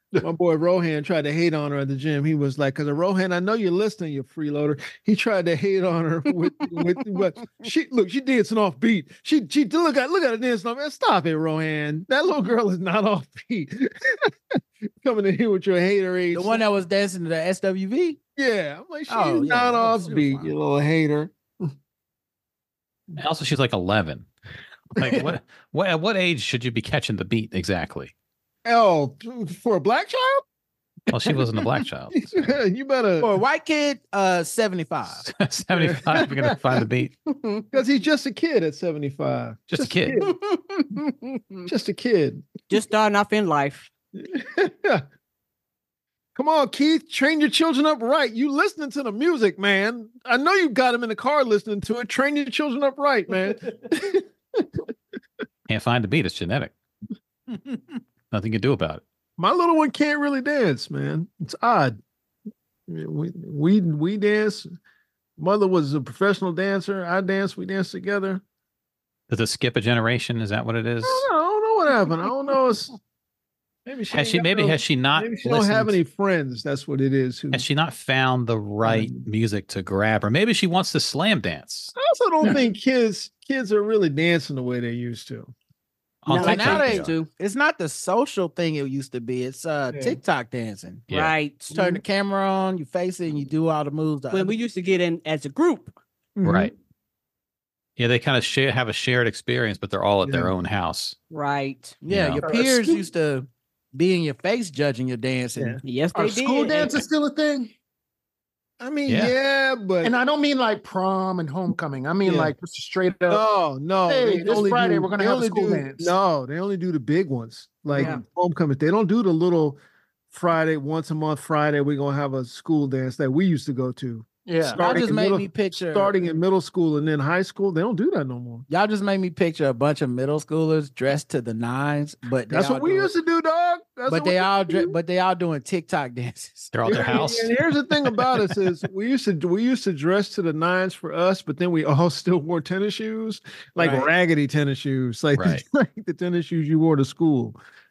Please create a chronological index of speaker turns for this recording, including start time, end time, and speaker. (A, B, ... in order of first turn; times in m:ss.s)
0:00.2-0:16.6 A
0:06.7-0:07.2 B
0:16.3-0:18.2 C
0:18.4-0:21.3 A
0:19.1-0:20.5 C
0:23.2-0:24.3 D
0:25.0-0:28.1 D
0:28.6-0:30.4 A
0:31.1-0:32.2 D
0:31.2-0:33.3 A
0:33.2-0:35.2 C
0:35.2-0:37.1 D
0:35.7-0:36.6 A
0:37.3-0:37.6 B
0:37.7-0:40.3 A
0:39.7-0:40.2 D
0:40.2-0:41.7 B
0:41.7-0:42.6 A
0:42.7-0:43.9 B
0:44.2-0:45.0 A
0:46.4-0:54.9 A
0:55.7-0:56.7 D
0:58.3-0:59.0 D
0:59.4-1:02.0 A
1:02.9-1:04.7 A
1:05.4-1:08.4 A
1:09.3-1:11.3 D
1:11.0-1:12.9 A
1:13.9-1:17.6 A
1:14.1-1:16.0 D
1:17.5-1:21.9 D
1:18.8-1:19.2 A
1:22.0-1:25.5 A
1:26.2-1:27.1 D
1:26.3-1:27.3 B
1:26.3-1:31.0 C
1:29.9-1:30.2 A
1:31.1-1:32.0 B
1:31.7-1:34.6 C
1:34.3-1:35.9 B
1:36.4-1:36.7 A
1:36.4-1:36.7 D
1:38.0-1:41.2 D
1:40.2-1:40.5 A
1:41.3-1:42.0 B
1:42.0-1:45.8 C
1:42.1-1:42.4 D
1:42.4-1:43.0 E
1:45.8-1:47.0 B
1:46.2-1:47.7 E
1:48.8-1:50.1 A
1:49.1-1:49.3 D
1:50.0-1:53.4 E
1:52.2-1:52.6 A
1:53.3-1:59.8 A
1:54.1-1:56.1 E
1:57.9-1:58.2 E
2:00.3-2:08.6 A
2:04.5-2:05.0 E
2:04.7-2:06.1 C
2:08.7-2:13.1 C
2:12.5-2:15.0 A
2:14.1-2:16.7 C
2:16.7-2:17.6 D
2:16.9-2:27.6 A
2:23.8-2:24.0 C
2:25.4-2:25.6 D